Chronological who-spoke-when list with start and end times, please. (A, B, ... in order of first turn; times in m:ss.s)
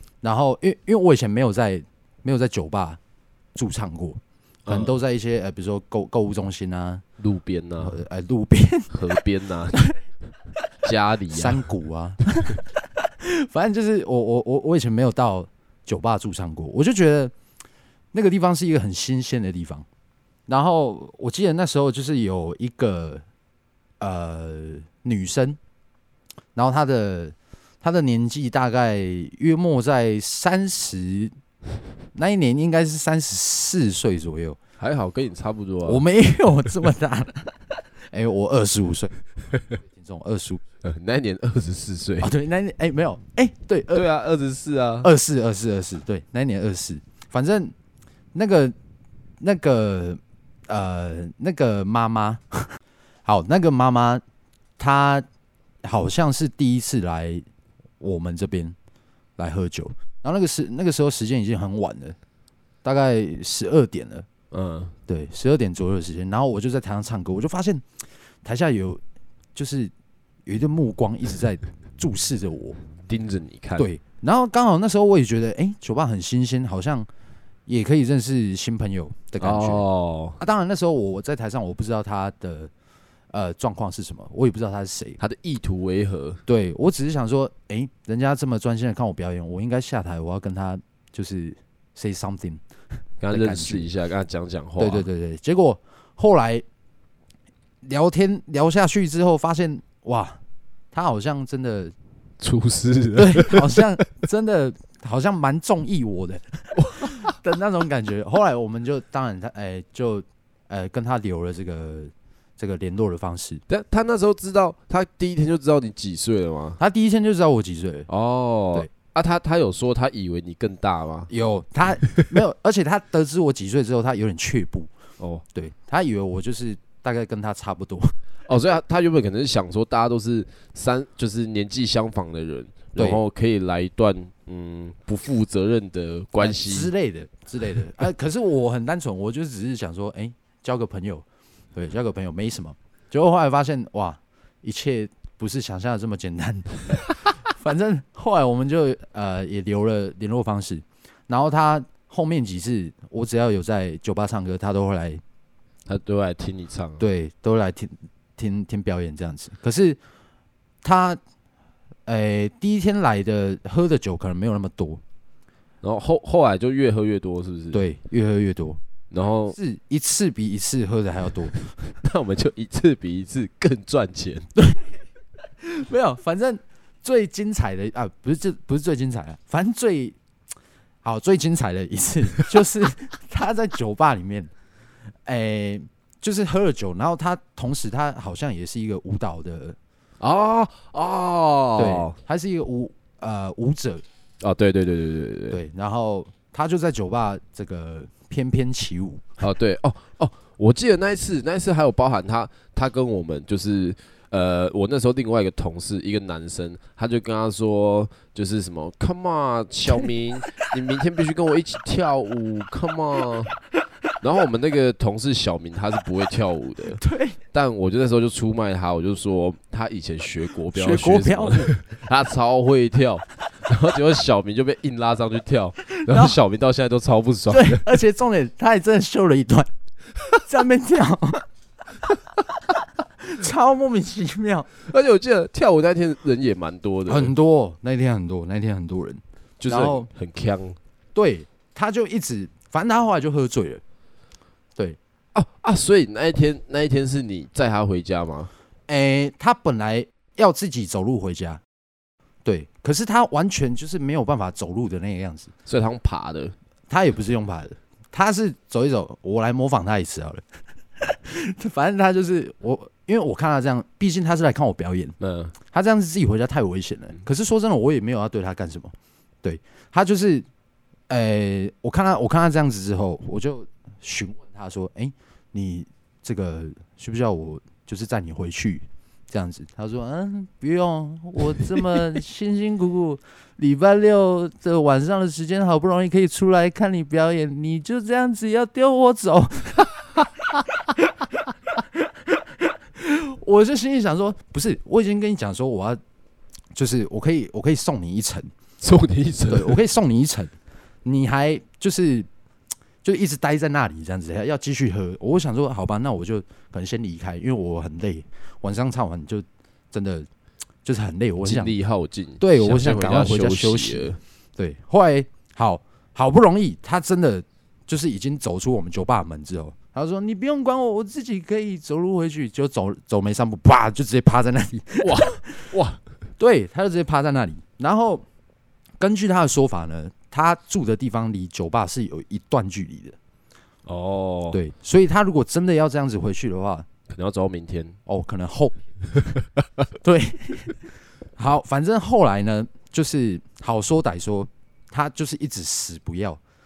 0:00.2-0:03.0 A
0:03.5-0:07.0 A
0:04.7-0:04.9 B
0:07.2-0:08.0 B
0:07.8-0:08.9 A
0:08.9-0:09.9 B
0:10.8-0:11.7 B
0:11.3-0:17.3 A
0:18.1-0:19.8 A
0:20.5-0:23.2 A
0:24.0-0:25.6 A
0:26.5-0:31.3 A
0:32.1-0:34.6 A
0:34.8-0:36.0 B
0:35.8-0:40.6 A
0:40.8-0:42.3 B
0:42.2-0:44.1 A
0:43.9-0:45.1 B
0:45.0-0:47.7 A
0:48.3-0:48.7 A
0:49.4-0:54.2 A
0:54.8-0:55.2 A
0:55.8-0:57.4 A
0:58.0-0:58.7 A
0:59.4-1:02.2 A
1:02.8-1:04.2 A
1:04.5-1:04.9 B
1:05.1-1:07.9 A
1:08.4-1:09.0 A
1:09.5-1:09.9 A
1:10.4-1:12.8 A
1:13.0-1:13.9 B
1:13.8-1:17.1 A
1:17.7-1:19.8 A
1:19.4-1:20.4 B
1:20.4-1:22.7 A
1:23.3-1:25.2 A
1:25.2-1:26.4 B
1:26.5-1:32.6 A
1:33.2-1:35.1 B
1:33.3-1:33.9 A
1:34.8-1:36.6 A
1:37.8-1:40.4 A
1:40.9-1:41.9 A
1:42.4-1:43.9 B
1:43.1-1:53.6 A
1:46.8-1:47.3 B
1:53.7-1:56.8 B
1:56.8-1:58.1 A
1:58.1-2:01.3 B
2:01.3-2:04.9 A
2:02.0-2:02.3 B
2:05.5-2:08.1 A
2:08.5-2:16.9 B
2:12.9-2:13.2 A
2:16.4-2:35.2 A
2:35.9-2:37.1 B
2:37.0-2:40.0 A
2:40.8-2:41.2 A
2:42.0-2:45.0 A
2:45.8-2:47.9 B
2:47.7-2:48.8 A
2:49.1-2:49.6 B
2:49.5-2:51.7 A
2:52.0-2:54.5 B
2:54.6-2:55.0 A
2:55.6-3:00.2 A
3:01.0-3:04.5 A
3:05.2-3:09.8 A
3:10.2-3:12.1 B
3:11.8-3:14.0 A
3:14.4-3:15.6 B
3:15.5-3:19.3 A
3:19.4-3:33.5 B
3:29.9-3:30.7 A
3:34.2-3:47.8 B
3:37.0-3:37.4 A
3:40.7-3:41.7 A
3:45.9-3:46.4 A
3:47.5-3:49.7 A
3:50.2-3:51.5 A
3:52.0-3:54.7 A
3:54.8-3:57.3 B
3:57.0-4:00.1 A
3:59.6-4:00.8 B
4:01.1-4:03.8 A
4:05.3-4:08.5 B
4:08.9-4:11.6 A
4:12.4-4:15.5 A
4:15.6-4:16.5 B
4:16.9-4:20.4 A
4:21.0-4:30.5 A
4:25.2-4:25.5 B
4:31.1-4:50.1 A
4:51.8-4:56.0 A
4:56.7-4:58.5 A
4:58.8-4:59.8 B
4:59.5-5:00.5 A
5:01.0-5:02.3 A
5:03.0-5:10.3 A
5:10.8-5:11.7 A
5:11.4-5:14.2 B
5:12.4-5:25.7 A
5:25.0-5:26.0 B
5:26.4-5:28.2 A
5:29.0-5:33.2 A
5:33.8-5:34.6 B
5:34.5-5:36.9 A
5:37.1-5:38.0 B
5:38.1-5:39.2 A
5:39.4-5:39.6 B
5:40.0-5:46.4 A